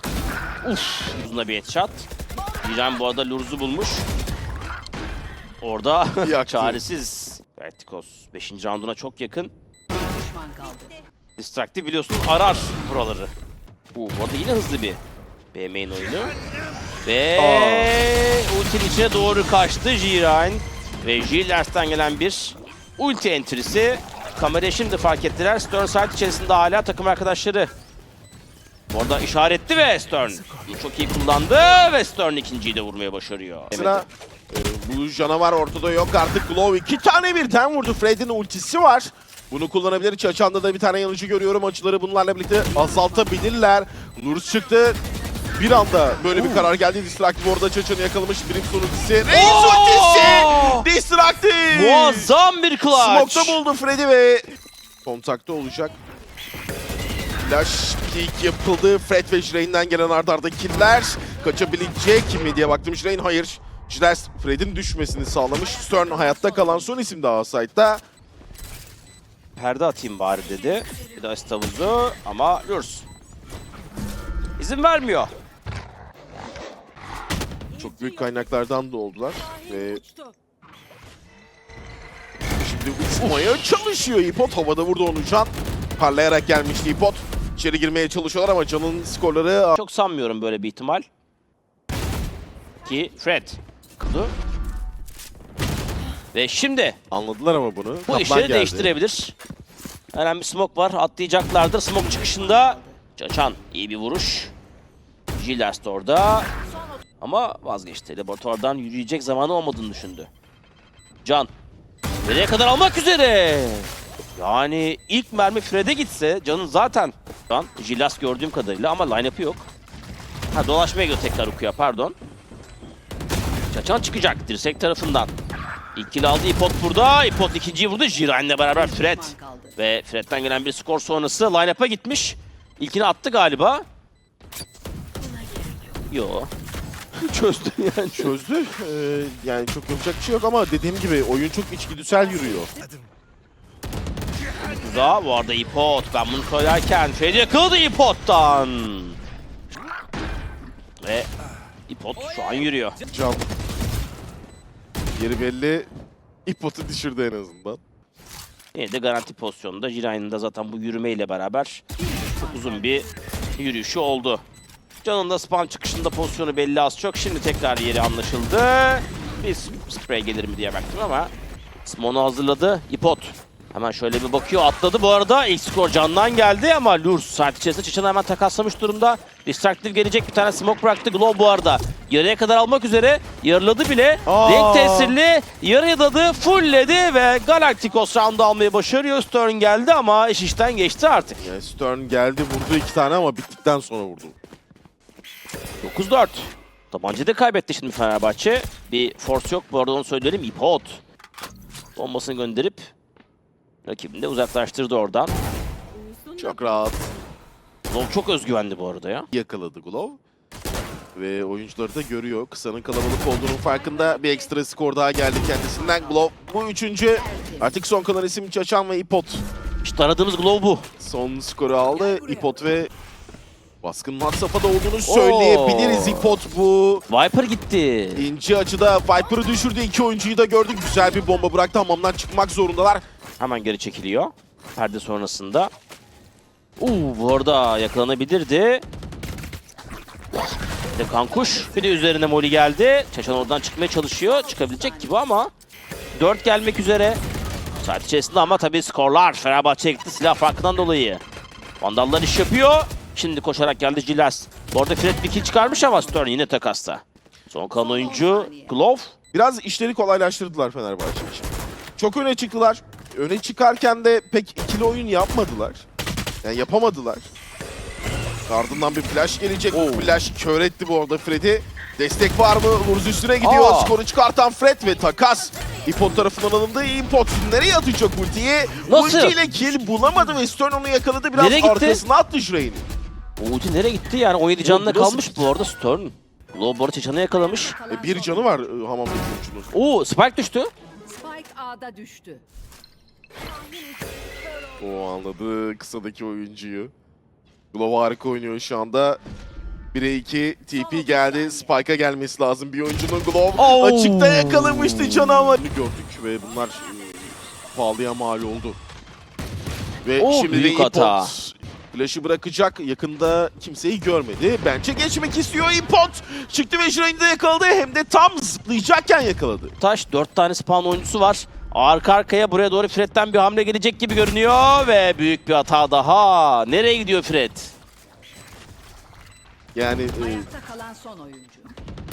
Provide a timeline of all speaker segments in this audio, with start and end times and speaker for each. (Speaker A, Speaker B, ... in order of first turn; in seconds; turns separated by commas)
Speaker A: 0.6-2.1, Speaker A: 2.6-4.0, Speaker A: 5.6-9.5, Speaker B: 6.2-6.8, Speaker C: 9.9-11.0, Speaker A: 11.4-13.3, Speaker A: 13.9-15.0, Speaker A: 15.5-16.3, Speaker A: 17.0-27.7, Speaker B: 17.4-17.9, Speaker A: 28.9-34.1, Speaker B: 33.7-45.0, Speaker C: 42.7-43.5, Speaker B: 45.5-52.3, Speaker C: 46.0-46.2, Speaker A: 46.3-46.7, Speaker A: 49.3-50.9, Speaker A: 51.7-53.6, Speaker B: 52.9-54.5, Speaker B: 55.0-56.0, Speaker B: 57.4-68.0, Speaker C: 65.6-67.1, Speaker A: 69.6-73.0, Speaker A: 74.6-75.3, Speaker C: 77.7-78.4, Speaker B: 77.8-80.0, Speaker C: 79.4-80.3, Speaker B: 82.6-89.8, Speaker A: 89.8-91.0, Speaker A: 92.8-94.3, Speaker A: 96.3-97.0, Speaker B: 97.1-98.9, Speaker A: 98.1-99.3, Speaker A: 100.1-104.5, Speaker C: 101.9-103.0, Speaker A: 105.4-106.5, Speaker A: 107.2-110.3, Speaker A: 111.2-111.5, Speaker A: 112.2-119.7, Speaker A: 120.5-122.1, Speaker A: 123.7-125.3, Speaker A: 125.9-133.8, Speaker C: 128.7-129.8, Speaker A: 136.1-136.5, Speaker A: 137.2-138.3, Speaker B: 138.2-142.7, Speaker A: 144.6-149.2, Speaker A: 151.0-151.3, Speaker A: 151.9-153.0, Speaker B: 153.1-153.4, Speaker B: 155.1-155.9, Speaker B: 156.4-157.8, Speaker A: 158.7-163.0, Speaker C: 162.0-163.1, Speaker A: 163.6-164.4, Speaker A: 165.0-171.3, Speaker A: 171.8-191.4, Speaker B: 184.2-185.2, Speaker B: 191.4-194.3, Speaker A: 195.8-201.0, Speaker A: 201.9-202.9, Speaker A: 203.8-205.3, Speaker C: 206.0-206.9, Speaker B: 206.4-207.1, Speaker A: 207.9-209.3, Speaker B: 209.3-210.2, Speaker B: 211.1-219.4, Speaker C: 214.1-214.3, Speaker C: 217.2-217.8, Speaker A: 219.8-220.9, Speaker B: 221.0-222.9, Speaker C: 221.9-222.6, Speaker B: 223.8-227.0, Speaker A: 225.1-226.4, Speaker A: 227.1-228.3, Speaker B: 228.1-233.0, Speaker A: 233.4-235.7, Speaker A: 236.8-238.8, Speaker A: 240.9-245.5, Speaker C: 244.1-245.3, Speaker A: 246.1-247.2, Speaker A: 247.8-251.2, Speaker A: 251.8-259.1, Speaker C: 255.2-256.4, Speaker C: 257.7-258.7, Speaker B: 259.3-265.8, Speaker B: 266.4-267.3, Speaker B: 268.5-282.8, Speaker A: 269.7-270.1, Speaker A: 273.4-273.9, Speaker A: 278.9-279.4, Speaker A: 281.3-282.0, Speaker A: 283.4-287.7, Speaker B: 284.6-285.5, Speaker C: 287.4-288.7, Speaker B: 287.9-289.7, Speaker A: 289.7-290.7, Speaker C: 291.1-292.4, Speaker B: 294.8-296.9, Speaker B: 297.7-299.2, Speaker B: 299.9-308.8, Speaker C: 300.8-301.8, Speaker A: 303.6-305.6, Speaker B: 310.0-319.7, Speaker A: 310.2-311.3, Speaker A: 319.8-327.7, Speaker B: 329.7-330.5, Speaker C: 330.1-331.7